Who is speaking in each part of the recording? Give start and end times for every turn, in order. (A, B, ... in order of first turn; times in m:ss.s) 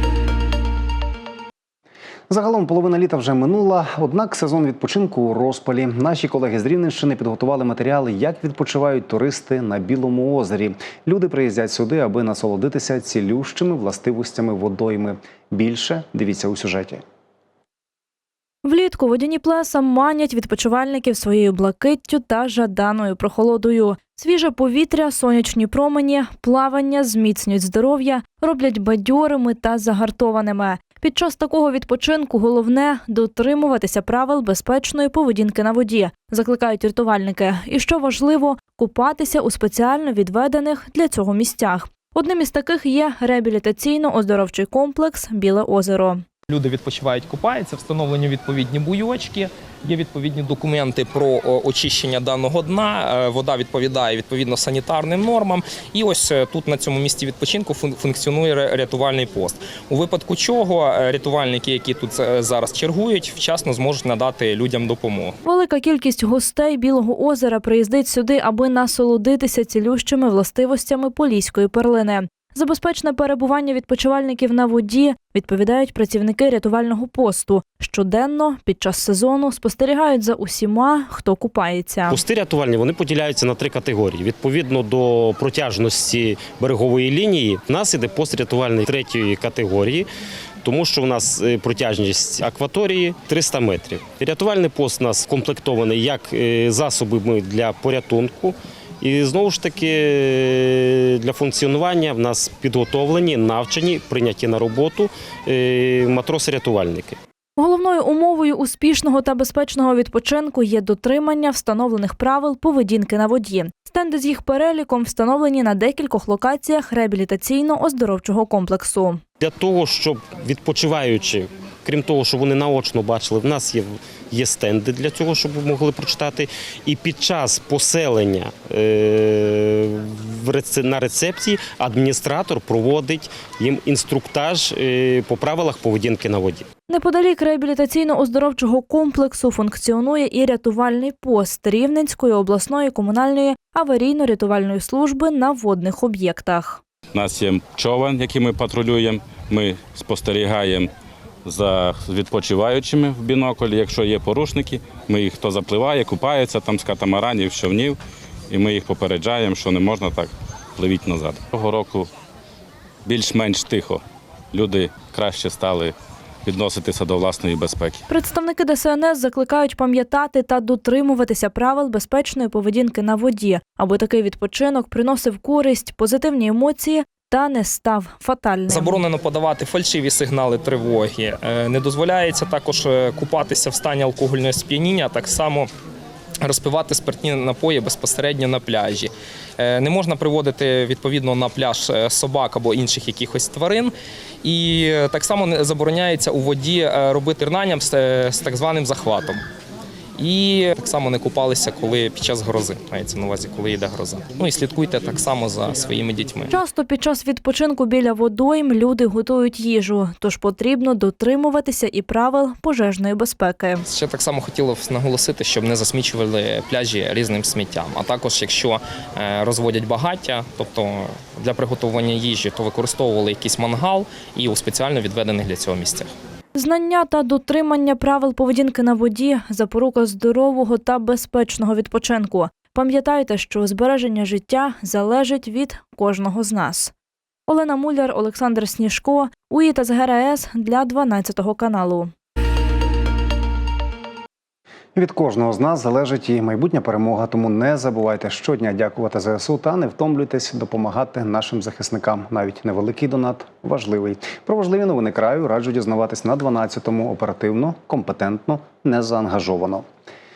0:02.3-0:17.0 A
0:18.6-0:46.2 B
0:46.5-1:05.4 C
1:05.4-1:22.2 B
1:22.1-1:30.1 D
1:30.6-1:47.2 D
1:47.6-1:59.2 B
1:59.4-2:16.7 D
2:16.9-2:26.8 B
2:27.1-2:30.9 E
2:31.4-2:38.0 E
2:38.5-2:42.1 E
2:43.0-2:48.0 E
2:48.1-2:59.0 B
2:58.7-3:05.7 C
3:06.4-3:13.9 C
3:14.4-3:19.4 C
3:20.2-3:26.5 C
3:26.5-3:33.8 B
3:33.9-3:46.1 C
3:46.6-3:56.9 B
3:57.5-4:02.1 B
4:05.0-4:19.8 A